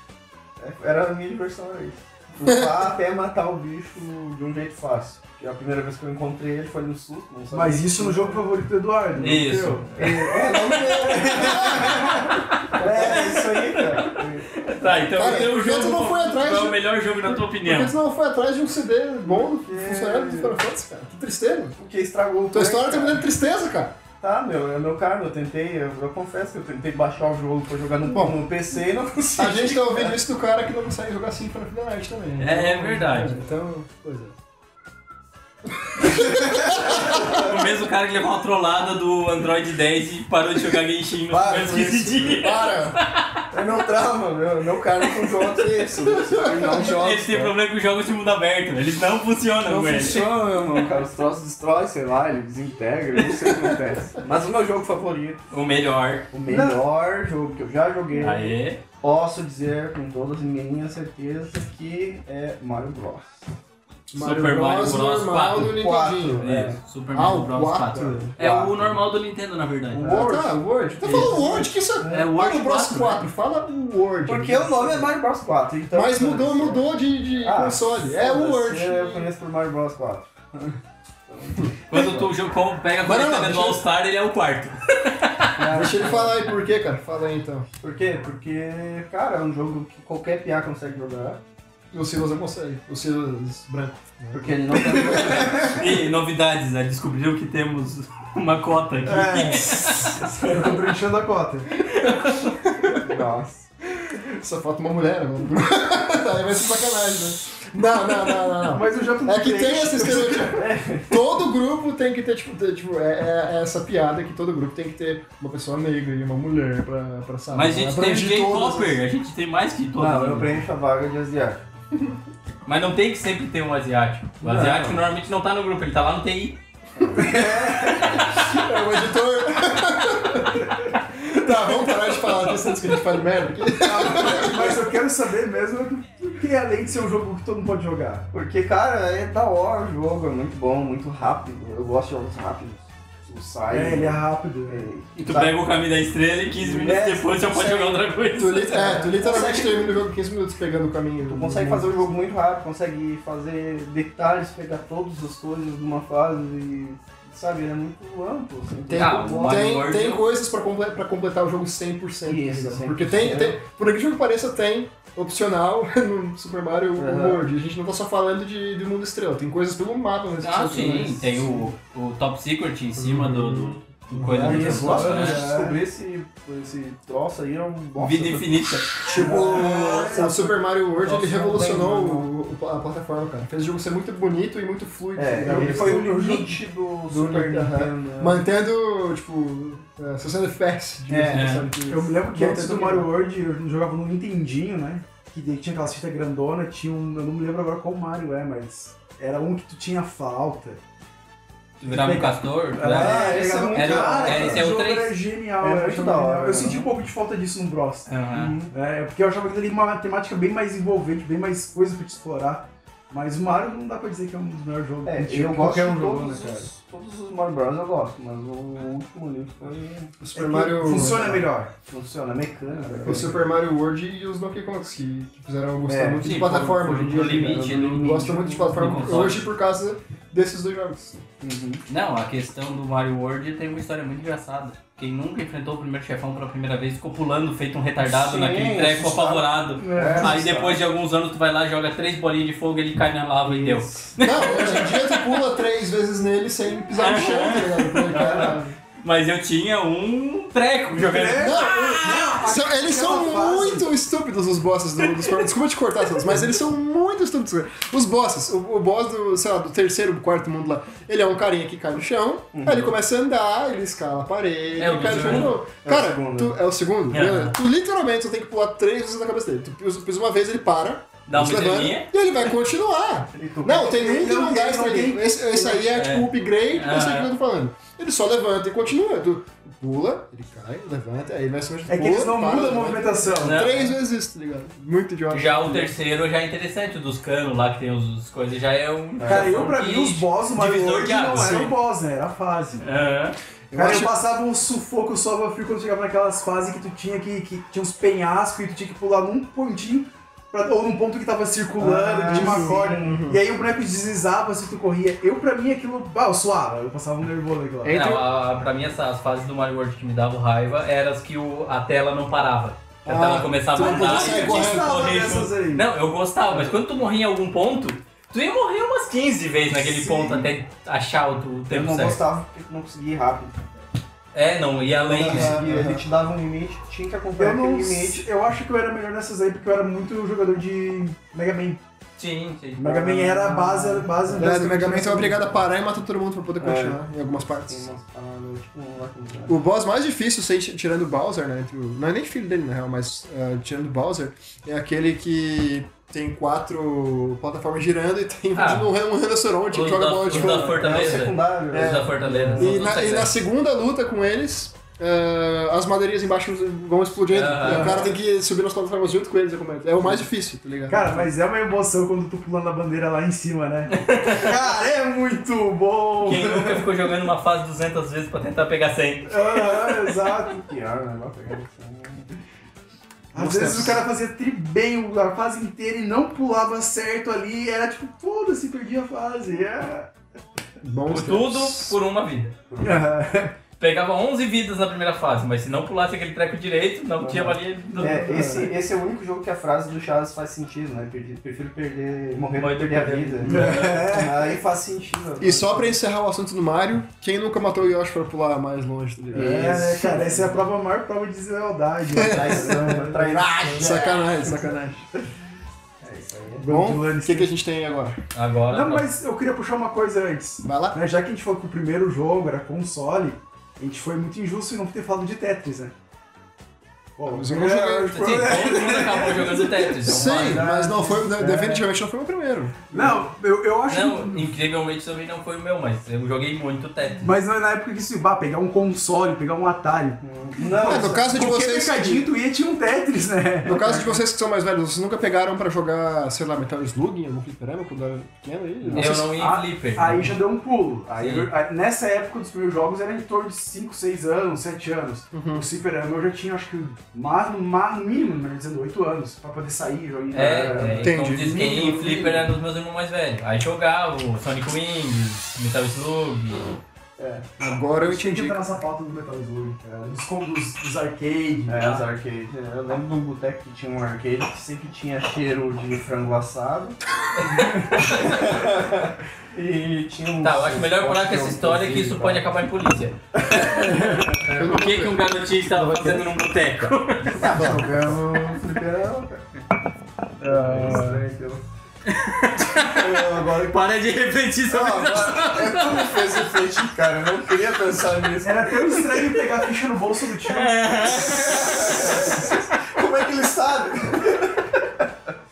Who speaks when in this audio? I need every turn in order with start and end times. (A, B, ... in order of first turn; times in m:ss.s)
0:00.6-0:08.4 A
0:07.5-0:13.5 B
0:09.2-0:09.9 C
0:10.0-0:15.5 A
0:11.4-0:12.0 D
0:11.5-0:12.4 C
0:13.0-0:17.9 C
0:15.1-0:21.8 D
0:19.3-0:20.6 A
0:21.8-0:23.3 A
0:22.5-0:24.0 D
0:24.2-0:30.2 A
0:28.1-0:28.4 D
0:29.4-0:34.4 D
0:32.4-0:33.3 C
0:35.7-0:37.5 D
0:36.6-0:37.4 A
0:36.9-0:43.4 C
0:41.3-0:42.4 A
0:42.4-0:43.0 D
0:43.5-0:47.5 A
0:46.2-0:46.7 D
0:46.6-0:50.3 C
0:49.6-0:55.4 A
0:55.5-0:56.3 C
0:56.3-1:03.4 A
0:56.5-0:56.8 B
0:58.2-0:58.8 C
1:04.1-1:06.6 D
1:04.2-1:10.2 C
1:05.7-1:06.8 A
1:07.1-1:08.3 D
1:08.0-1:09.0 A
1:09.9-1:12.2 A
1:10.0-1:15.1 D
1:11.0-1:13.3 C
1:14.3-1:16.8 A
1:15.9-1:19.3 D
1:17.4-1:22.3 A
1:21.6-1:22.1 D
1:21.9-1:25.5 C
1:23.0-1:23.8 D
1:25.6-1:26.5 A
1:25.7-1:27.7 D
1:27.8-1:31.4 A
1:31.9-1:35.6 D
1:34.3-1:35.8 A
1:35.0-1:40.2 C
1:39.0-1:41.8 B
1:42.0-1:42.5 C
1:42.0-1:43.0 D
1:43.0-1:43.7 A
1:44.0-1:59.0 D
1:48.7-1:50.6 B
1:50.4-1:51.2 A
1:57.5-2:00.6 C
2:00.0-2:01.6 A
2:02.7-2:06.6 C
2:04.4-2:05.0 D
2:07.0-2:07.5 A
2:07.1-2:08.3 B
2:08.2-2:14.8 D
2:13.8-2:18.3 B
2:18.3-2:25.6 A
2:23.7-2:24.9 B
2:25.2-2:29.0 C
2:26.6-2:28.0 A
2:28.4-2:32.1 D
2:28.6-2:30.0 A
2:31.3-2:39.5 A
2:38.9-2:51.6 D
2:39.0-2:40.2 C
2:42.3-2:43.6 A
2:47.0-2:47.4 A
2:50.4-2:55.5 C
2:53.0-2:55.2 D
2:54.3-2:55.8 B
2:54.4-3:02.3 A
2:58.0-2:59.0 C
2:59.1-3:06.2 D
2:59.1-3:00.5 B
3:05.2-3:08.4 A
3:05.5-3:06.6 B
3:07.1-3:13.1 D
3:11.1-3:11.5 A
3:11.3-3:11.7 C
3:11.9-3:20.8 B
3:21.8-3:25.2 C
3:21.8-3:28.1 B
3:22.9-3:24.7 A
3:25.6-3:26.9 A
3:28.1-3:28.6 C
3:28.3-3:28.7 A
3:28.7-3:36.7 B
3:35.0-3:40.2 A
3:40.2-3:41.4 D
3:40.4-3:41.7 B
3:40.9-3:43.4 A
3:42.8-3:43.4 B
3:43.0-3:51.2 D
3:45.9-3:46.4 A
3:46.2-3:49.5 C
3:47.1-3:49.0 A
3:51.4-3:51.8 A
3:51.9-4:05.4 C
3:58.0-4:00.8 A
3:59.8-4:00.4 B
4:03.4-4:04.6 A
4:04.2-4:08.8 D
4:07.0-4:12.4 C
4:10.9-4:13.9 B
4:11.4-4:45.9 D
4:22.5-4:22.9 A
4:24.8-4:25.6 C
4:25.0-4:26.6 A
4:27.1-4:27.5 C
4:31.3-4:32.1 C
4:33.4-4:34.0 A
4:33.8-4:35.9 B
4:35.9-4:37.3 C
4:41.9-4:43.9 B
4:43.4-4:43.9 C
4:45.3-4:51.7 C
4:49.2-4:49.7 A
4:49.2-4:52.8 B
4:51.3-4:51.7 D
4:52.8-4:53.4 C
4:53.7-4:54.1 D
4:53.7-5:08.2 B
5:01.8-5:03.2 A
5:02.3-5:03.4 D
5:07.9-5:22.2 C
5:07.9-5:08.2 D
5:13.1-5:15.0 D
5:13.8-5:15.9 B
5:19.8-5:20.5 B
5:21.7-5:23.6 A
5:24.3-5:25.6 C
5:25.1-5:28.3 A
5:25.2-5:26.0 D
5:27.4-5:31.8 B
5:32.2-5:33.0 C
5:32.8-5:35.6 B
5:32.8-5:34.5 A
5:34.3-5:37.9 D
5:36.6-5:39.6 A
5:39.5-5:51.2 D
5:48.6-5:48.9 C
5:49.7-5:53.3 C
5:50.3-5:52.8 A
5:51.7-6:01.2 D
5:57.3-5:58.0 C
5:57.6-5:58.1 B
6:00.9-6:06.8 B
6:03.9-6:04.5 C
6:06.2-6:10.0 C
6:09.3-6:10.6 B
6:10.5-6:12.3 A
6:13.3-6:20.1 B
6:13.3-6:14.0 D
6:20.8-6:22.0 D
6:21.1-6:22.5 C
6:22.7-6:23.0 A
6:22.8-6:23.6 B
6:23.8-6:28.4 C
6:27.2-6:36.0 A
6:27.9-6:28.7 B
6:32.6-6:33.8 C
6:33.4-6:34.6 B
6:35.4-6:39.8 D
6:39.3-6:40.6 A
6:39.4-6:44.6 B
6:42.1-6:45.0 D
6:42.2-6:44.5 A
6:46.0-6:46.6 A
6:46.6-6:47.5 B
6:46.7-6:48.2 D
6:48.3-6:49.1 C
6:48.7-6:55.9 B
6:50.6-6:51.0 D
6:57.2-7:00.1 B
6:57.2-6:58.2 D
6:58.1-7:00.6 C
7:00.0-7:02.9 D
7:00.1-7:01.8 A
7:01.4-7:01.8 B
7:02.9-7:04.5 B
7:03.9-7:07.3 C
7:07.2-7:14.1 B
7:10.2-7:11.3 A
7:10.8-7:12.3 D
7:13.6-7:19.3 D
7:18.9-7:32.5 B
7:18.9-7:20.3 C
7:21.2-7:21.5 C
7:25.3-7:25.7 D
7:30.3-7:36.7 C
7:31.0-7:31.6 D
7:37.2-7:37.4 A
7:37.6-7:38.6 D
7:38.0-7:42.0 B
7:41.7-7:47.0 A
7:47.7-7:48.4 C
7:47.9-7:52.4 A
7:50.4-7:57.4 C
7:53.4-7:54.1 A
7:54.5-7:55.2 D
7:55.8-7:56.2 A
7:57.3-7:59.4 A
7:57.6-7:57.8 D
8:00.4-8:01.2 B
8:00.4-8:01.6 A
8:02.1-8:06.4 C
8:02.8-8:03.8 A
8:04.7-8:09.0 A
8:08.4-8:11.2 B
8:10.4-8:12.0 C
8:11.0-8:14.8 A